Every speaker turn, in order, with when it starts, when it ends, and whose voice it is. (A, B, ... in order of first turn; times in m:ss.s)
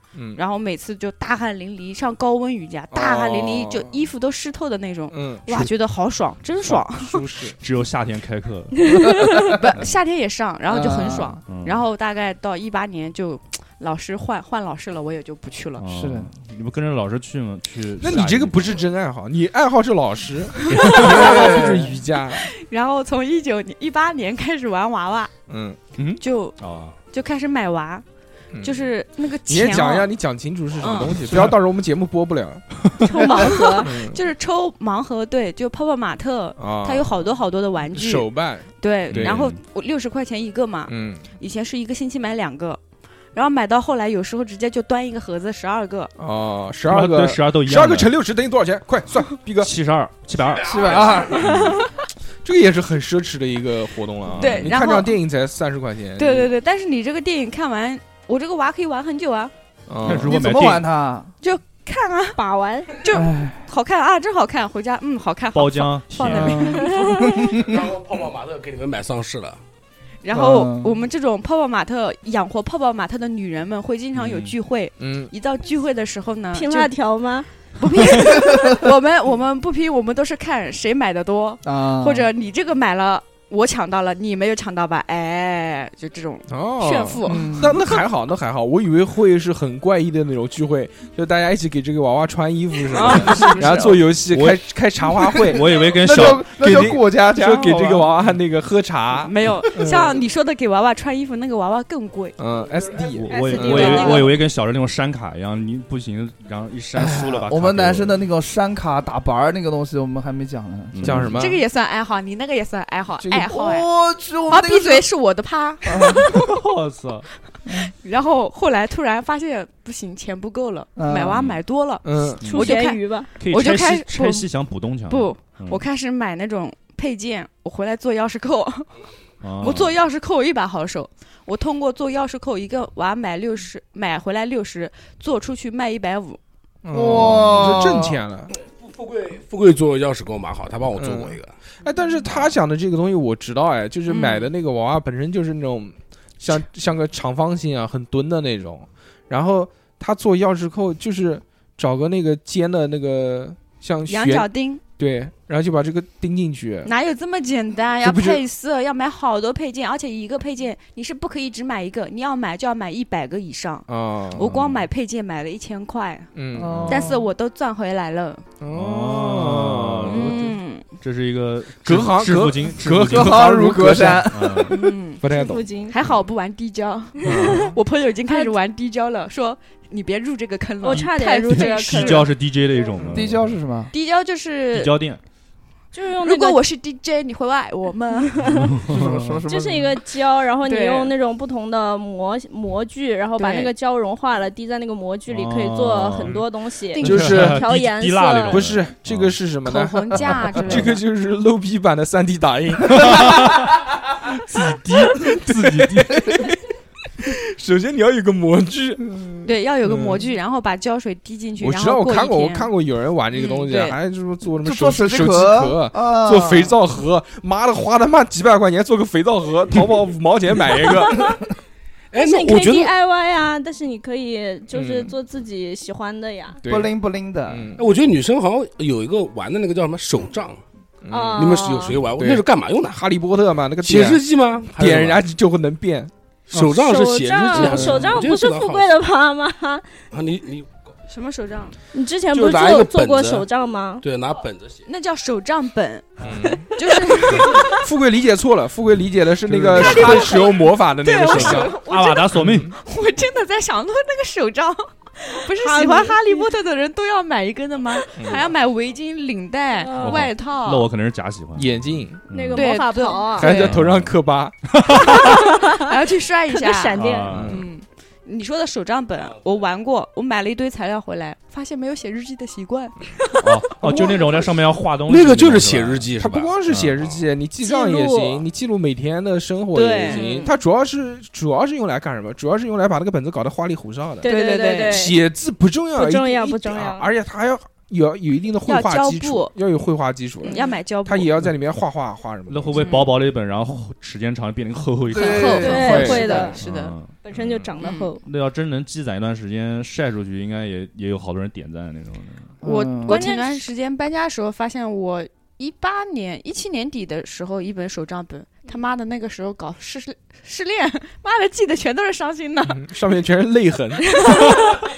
0:00.1-0:00.4 A
0:00.3-0:07.4 B
0:02.9-0:04.0 A
0:05.1-0:05.6 A
0:06.6-0:07.6 A
0:07.6-0:08.8 C
0:09.5-0:15.9 B
0:10.7-0:11.4 D
0:11.4-0:11.8 C
0:15.8-0:18.6 C
0:15.9-0:16.3 D
0:18.0-0:22.4 A
0:20.7-0:21.6 B
0:20.9-0:21.9 D
0:22.3-0:25.3 B
0:25.5-0:25.8 A
0:26.0-0:27.0 C
0:26.2-0:28.0 B
0:28.5-0:28.8 A
0:28.6-0:30.1 B
0:29.4-0:32.6 A
0:30.8-0:31.4 B
0:33.0-0:42.8 B
0:33.1-0:33.9 E
0:33.8-0:34.2 A
0:36.6-0:37.1 A
0:37.9-0:39.4 A
0:39.1-0:39.6 C
0:40.9-0:41.2 A
0:43.3-0:46.1 B
0:46.2-0:49.7 A
0:46.9-0:48.1 C
0:49.6-0:51.8 C
0:50.6-0:51.2 F
0:50.6-0:51.5 D
0:51.4-0:51.9 B
0:52.4-0:56.5 A
0:54.4-0:55.2 B
0:56.2-0:59.5 B
0:59.9-1:00.4 A
1:00.0-1:00.9 C
1:00.1-1:01.3 D
1:01.4-1:02.4 B
1:02.4-1:03.0 E
1:02.9-1:07.3 B
1:03.1-1:03.6 D
1:05.5-1:06.7 C
1:06.3-1:07.8 D
1:06.6-1:07.4 E
1:07.5-1:09.6 F
1:10.2-1:16.9 B
1:10.3-1:11.0 D
1:14.2-1:14.5 C
1:15.0-1:15.3 A
1:16.5-1:17.5 E
1:17.8-1:27.7 B
1:18.5-1:18.8 D
1:21.6-1:22.3 D
1:26.5-1:40.2 A
1:27.2-1:27.8 D
1:32.9-1:33.8 B
1:33.3-1:34.0 D
1:34.3-1:34.6 C
1:35.5-1:36.9 C
1:35.7-1:38.1 D
1:39.2-1:42.4 B
1:42.4-1:44.0 A
1:43.1-1:48.2 C
1:43.3-1:44.2 E
1:43.3-1:44.4 B
1:46.9-1:51.2 D
1:50.9-1:51.4 C
1:51.0-1:51.6 A
1:51.3-1:53.9 B
1:53.2-1:53.5 A
1:53.4-1:55.0 D
1:54.5-1:56.6 B
1:55.9-1:56.3 D
1:56.4-1:57.2 C
1:57.7-2:04.5 B
2:01.0-2:01.4 D
2:01.3-2:01.6 C
2:02.0-2:02.4 A
2:02.4-2:02.7 C
2:02.5-2:03.3 E
2:03.4-2:05.8 C
2:05.1-2:08.9 B
2:09.4-2:09.9 C
2:09.6-2:16.4 B
2:16.8-2:18.5 A
2:16.9-2:18.2 D
2:18.8-2:21.5 F
2:21.0-2:36.9 A
2:24.1-2:24.5 B
2:34.1-2:34.8 B
2:36.8-2:46.3 B
2:38.0-2:38.4 A
2:43.9-2:44.5 A
2:44.4-2:44.8 C
2:46.3-2:47.0 A
2:46.5-2:47.2 D
2:46.6-2:47.1 C
2:46.9-2:48.4 B
2:48.6-2:50.4 A
2:48.7-2:53.5 C
2:50.1-2:50.9 B
2:51.8-2:54.6 A
2:53.1-2:54.8 D
2:54.2-2:54.8 C
2:54.7-3:02.3 B
2:55.2-2:55.6 A
2:55.3-2:56.0 E
2:57.2-2:57.5 E
2:57.2-2:57.7 A
2:58.3-2:58.5 E
3:00.8-3:02.3 E
3:01.6-3:03.6 C
3:03.0-3:03.3 A
3:03.1-3:03.9 D
3:03.9-3:05.0 B
3:04.7-3:05.2 C
3:05.9-3:06.6 E
3:06.2-3:08.4 B
3:08.3-3:08.7 E
3:08.7-3:09.4 C
3:08.9-3:10.0 D
3:09.4-3:18.6 E
3:10.6-3:11.1 B
3:13.4-3:13.7 B
3:15.3-3:16.4 C
3:17.0-3:19.4 C
3:17.0-3:17.7 A
3:18.5-3:23.4 A
3:19.6-3:21.0 B
3:20.6-3:20.9 C
3:22.9-3:23.7 C
3:24.5-3:26.6 A
3:24.5-3:26.3 C
3:27.2-3:29.1 A
3:29.4-3:32.7 B
3:29.8-3:30.2 A
3:31.6-3:41.4 A
3:33.3-3:34.0 B
3:34.6-3:36.7 D
3:42.1-3:42.9 F
3:42.2-3:46.6 E
3:44.7-3:45.1 A
3:46.6-3:46.9 A
3:46.6-3:47.7 D
3:47.5-3:47.8 A
3:47.8-3:50.6 F
3:51.0-3:56.8 A
3:51.1-3:52.0 E
3:51.4-3:53.0 F
3:53.8-3:55.2 F
3:56.5-3:58.9 F
3:56.8-3:59.9 E
3:57.5-3:58.0 A
4:00.1-4:00.7 F
4:01.1-4:01.7 B
4:01.9-4:04.0 E
4:02.3-4:03.4 F
4:04.0-4:04.8 F
4:04.8-4:06.2 B
4:06.2-4:06.6 A
4:06.7-4:07.7 B
4:06.8-4:07.7 E
4:07.6-4:11.7 A
4:09.7-4:20.9 B
4:11.4-4:12.7 C
4:12.3-4:12.7 A
4:15.6-4:16.4 E
4:18.2-4:18.4 A
4:19.8-4:20.3 E
4:20.0-4:22.6 C
4:21.6-4:22.2 A
4:22.3-4:23.5 E
4:22.5-4:23.8 B
4:23.4-4:24.6 A
4:23.4-4:24.1 C
4:24.7-4:25.2 C
4:25.0-4:33.0 B
4:25.5-4:26.0 E
4:26.5-4:27.4 E
4:27.0-4:27.6 C
4:27.3-4:27.6 A
4:33.4-4:37.0 C
4:35.1-4:36.5 F
4:36.2-4:44.3 A
4:37.6-4:38.4 E
4:39.7-4:40.5 E
4:39.8-4:40.4 B
4:44.2-4:45.1 E
4:44.2-4:45.1 B
4:44.9-4:52.9 A
4:46.0-4:47.1 E
4:48.6-4:49.5 B
4:50.4-4:51.3 B
4:50.5-4:50.7 E
4:52.5-5:02.5 C
4:52.7-4:53.2 B
4:55.1-4:56.0 D
4:55.1-4:56.9 B
4:55.6-4:56.6 E
4:55.7-4:56.4 A
4:57.2-4:58.2 E
4:57.8-4:58.1 B
5:02.6-5:03.2 D
5:02.6-5:12.8 B
5:03.0-5:03.6 E
5:12.7-5:14.0 A
5:14.1-5:14.8 E
5:14.2-5:14.4 B